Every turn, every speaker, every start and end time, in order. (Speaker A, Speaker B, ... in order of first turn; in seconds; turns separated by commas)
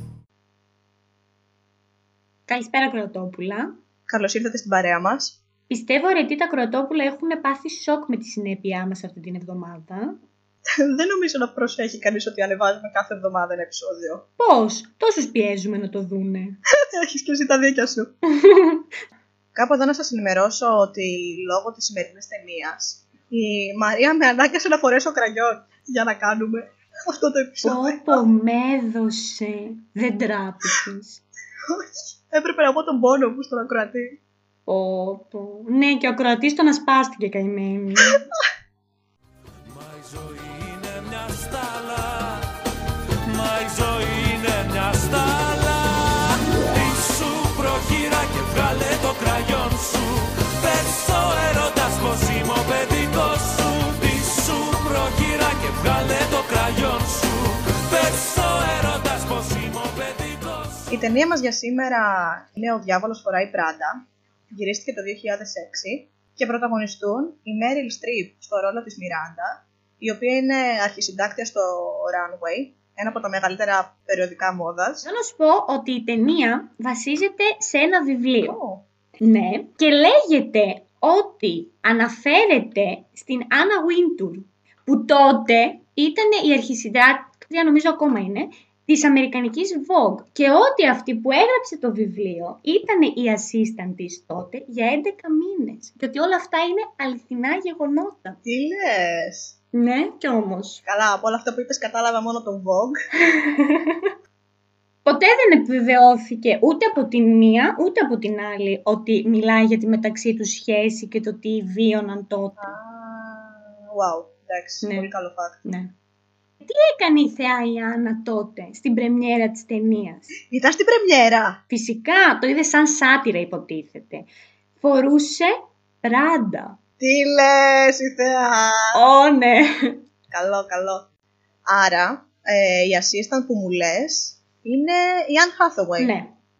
Speaker A: 2.5-3.8, Speaker B: 4.1-5.4, Speaker A: 5.7-10.2, Speaker B: 10.8-14.2, Speaker A: 14.4-16.6, Speaker B: 16.9-18.1, Speaker A: 18.3-18.9, Speaker B: 19.5-28.2, Speaker A: 27.6-31.2, Speaker B: 31.7-34.2, Speaker A: 34.7-38.2, Speaker C: 39.6-42.5, Speaker C: 43.2-60.9, Speaker B: 60.9-75.0, Speaker A: 75.0-78.6, Speaker B: 78.4-78.8, Speaker A: 79.2-98.4, Speaker B: 98.4-99.5, Speaker A: 99.7-100.8, Speaker B: 100.8-103.0, Speaker A: 103.3-104.1, Speaker A: 105.0-112.7, Speaker B: 112.6-115.6, Speaker A: 114.8-115.1, Speaker A: 115.6-115.9, Speaker A: 116.6-120.3, Speaker B: 120.5-121.6, Speaker A: 121.7-124.3, Speaker A: 124.8-126.8, Speaker B: 127.0-129.0, Speaker A: 128.9-130.0, Speaker B: 130.3-131.1, Speaker B: 131.7-136.1, Speaker A: 136.0-136.3